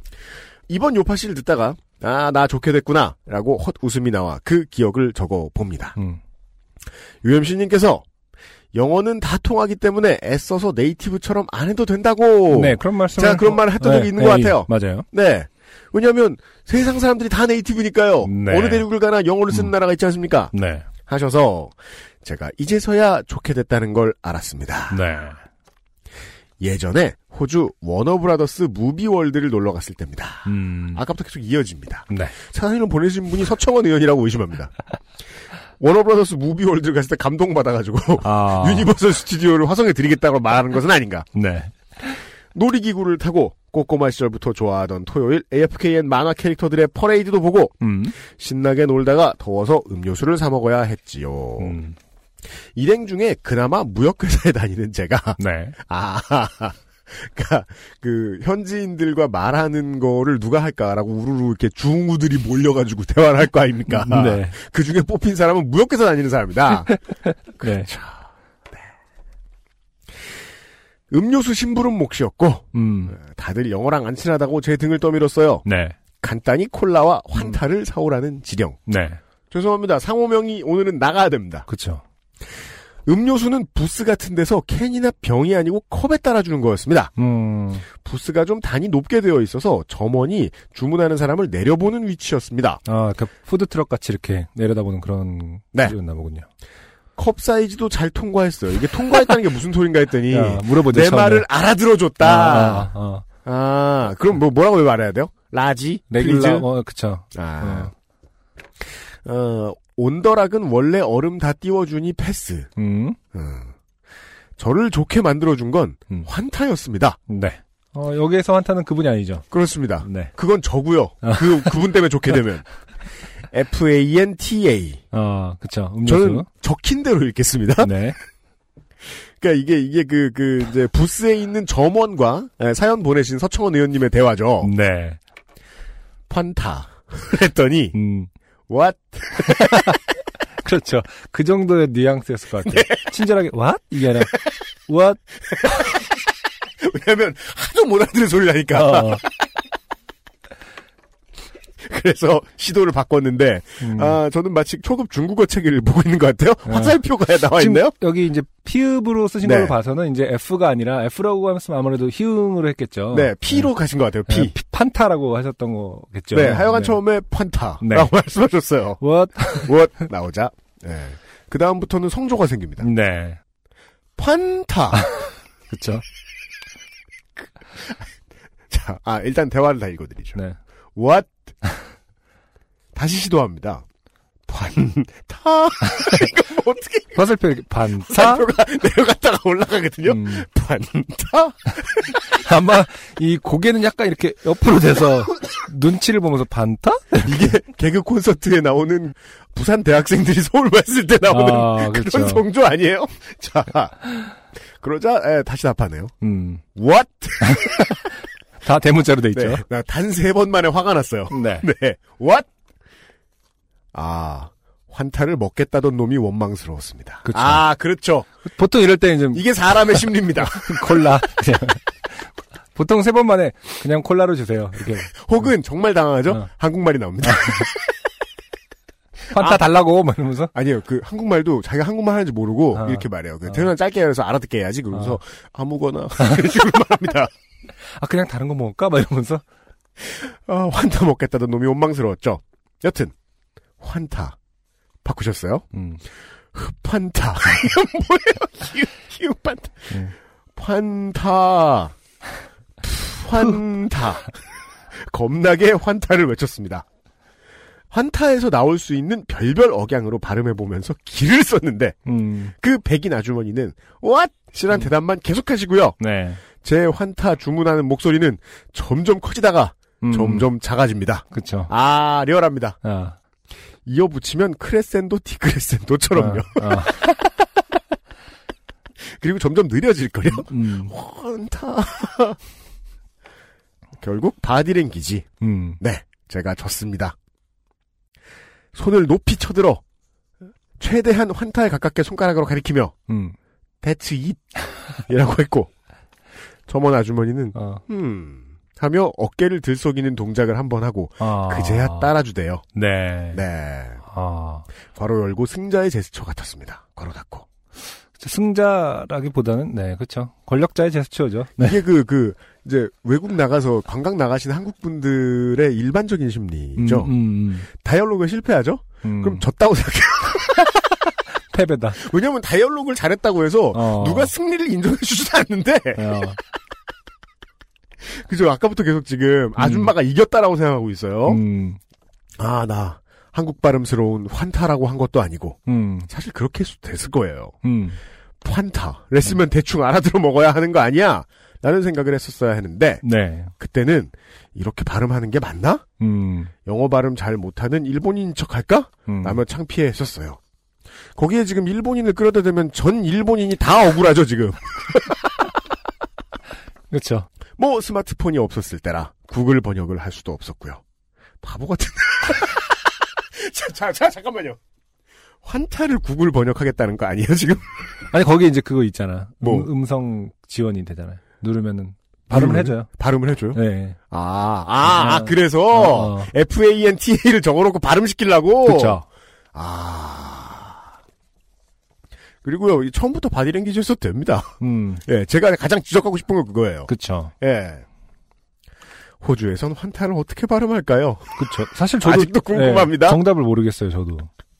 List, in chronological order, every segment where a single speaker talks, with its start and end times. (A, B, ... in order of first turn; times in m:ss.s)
0:00.7-0:06.0 A
0:07.2-0:08.0 A
0:08.7-0:20.5 A
0:12.5-0:15.1 B
0:18.2-0:18.8 B
0:20.5-0:20.9 B
0:21.1-0:25.0 A
0:24.9-0:25.4 B
0:26.6-0:34.7 A
0:30.4-0:31.0 B
0:32.1-0:32.3 B
0:35.8-0:41.3 A
0:38.2-0:38.9 B
0:41.3-0:42.2 B
0:42.5-0:51.8 A
0:47.8-0:48.2 B
0:51.6-0:52.0 B
0:52.7-1:07.0 A
0:55.4-0:55.8 B
1:03.9-1:04.6 B
1:07.5-1:08.2 A
1:07.6-1:07.9 B
1:11.1-1:15.6 A
1:12.7-1:13.2 B
1:15.6-1:16.0 B
1:16.2-1:18.8 A
1:18.8-1:19.2 B
1:19.5-1:21.7 A
1:21.7-1:22.0 B
1:23.0-1:27.1 A
1:27.2-1:27.8 B
1:28.0-1:32.8 A
1:32.8-1:36.5 B
1:37.2-1:42.9 A
1:40.3-1:41.5 B
1:42.2-1:43.2 B
1:43.4-1:46.7 A
1:46.1-1:47.9 B
1:47.3-1:47.9 A
1:48.8-1:52.7 A
1:52.8-1:53.2 B
1:53.3-1:53.7 A
1:54.6-1:57.2 A
1:57.3-1:59.4 B
1:59.5-2:02.6 A
2:00.0-2:00.3 B
2:01.2-2:01.8 B
2:03.5-2:05.0 A
2:05.1-2:06.4 B
2:06.0-2:07.9 A
2:07.8-2:08.2 B
2:09.4-2:14.7 A
2:14.6-2:15.2 B
2:16.3-2:17.9 A
2:17.9-2:18.3 B
2:18.7-2:19.9 A
2:19.4-2:20.0 B
2:20.6-2:25.2 B
2:22.6-2:23.0 A
2:25.6-2:26.1 A
2:26.8-2:29.3 A
2:28.7-2:29.2 B
2:31.8-2:37.9 A
2:33.8-2:34.2 B
2:36.6-2:37.0 B
2:37.5-2:43.7 B
2:39.4-2:39.8 A
2:43.1-2:44.5 A
2:44.3-2:47.0 B
2:46.3-2:49.0 A
2:47.8-2:48.1 B
2:49.0-2:49.8 B
2:49.6-2:52.9 A
2:52.8-2:53.4 B
2:54.2-2:55.1 A
2:55.0-2:56.0 B
2:58.7-3:00.4 A
3:00.9-3:01.4 A
3:02.9-3:03.8 A
3:04.5-3:07.3 A
3:05.9-3:06.2 B
3:07.1-3:08.4 B
3:08.1-3:12.2 A
3:10.0-3:10.4 B
3:12.2-3:17.4 B
3:17.2-3:24.0 A
3:21.3-3:22.4 B
3:24.8-3:26.1 A
3:26.2-3:26.6 B
3:26.8-3:27.9 A
3:27.4-3:29.6 B
3:29.3-3:32.5 A
3:31.3-3:31.6 B
3:33.9-3:38.3 A
3:37.2-3:37.6 B
3:38.4-3:45.5 B
3:39.3-3:40.9 A
3:45.2-3:47.8 A
3:47.2-3:47.6 B
3:49.3-3:50.5 B
3:49.3-3:49.7 A
3:50.5-3:57.3 A
3:52.7-3:53.7 B
3:57.8-3:59.4 B
4:00.0-4:03.1 A
4:03.8-4:04.4 A
4:05.0-4:05.6 A
4:05.7-4:06.0 B
4:06.5-4:11.9 A
4:12.8-4:14.3 A
4:14.9-4:16.8 A
4:17.9-4:22.0 A
4:22.0-4:22.5 B
4:22.5-4:26.0 A
4:26.0-4:26.4 B
4:26.6-4:32.8 A
4:30.0-4:30.5 B
4:31.3-4:31.7 B
4:32.8-4:33.2 B
4:33.8-4:37.1 A
4:36.1-4:37.1 B
4:39.0-4:42.4 A
4:40.2-4:40.9 B
4:44.0-4:45.3 A
4:45.4-4:45.8 B
4:45.8-4:47.1 A
4:48.7-4:49.8 A
4:50.8-4:52.9 A
4:53.1-4:53.4 B
4:53.8-4:54.5 A
4:55.0-4:55.7 A
4:56.7-5:02.6 A
4:57.5-4:57.8 B
5:01.2-5:02.1 B
5:02.7-5:03.4 B
5:03.3-5:04.0 A
5:04.0-5:04.7 B
5:04.9-5:07.4 A
5:08.2-5:11.8 B
5:11.6-5:17.1 A
5:16.8-5:17.7 B
5:17.7-5:20.7 A
5:19.0-5:19.4 B
5:21.5-5:22.0 B
5:22.0-5:26.3 A
5:23.7-5:24.3 B
5:26.0-5:26.4 B
5:28.0-5:31.4 A
5:29.6-5:29.9 B
5:31.2-5:31.8 B
5:32.4-5:37.6 A
5:35.6-5:36.1 B
5:37.6-5:38.0 B
5:38.4-5:43.0 A
5:43.0-5:43.5 B
5:43.6-5:45.8 A
5:46.0-5:46.5 B
5:46.6-5:50.4 A
5:49.1-5:49.4 B
5:51.2-5:55.3 A
5:56.9-5:57.3 B
5:57.6-6:00.8 A
6:01.4-6:04.6 A
6:05.4-6:07.6 A
6:08.1-6:12.9 B
6:09.4-6:09.7 A
6:12.3-6:13.6 A
6:13.5-6:14.0 B
6:14.1-6:19.0 A
6:14.8-6:16.3 B
6:18.6-6:19.0 B
6:19.5-6:20.8 A
6:22.4-6:24.5 A
6:24.6-6:25.0 B
6:25.0-6:26.9 A
6:26.9-6:27.3 B
6:27.4-6:27.8 A
6:29.2-6:31.5 A
6:31.4-6:34.3 B
6:32.0-6:33.2 A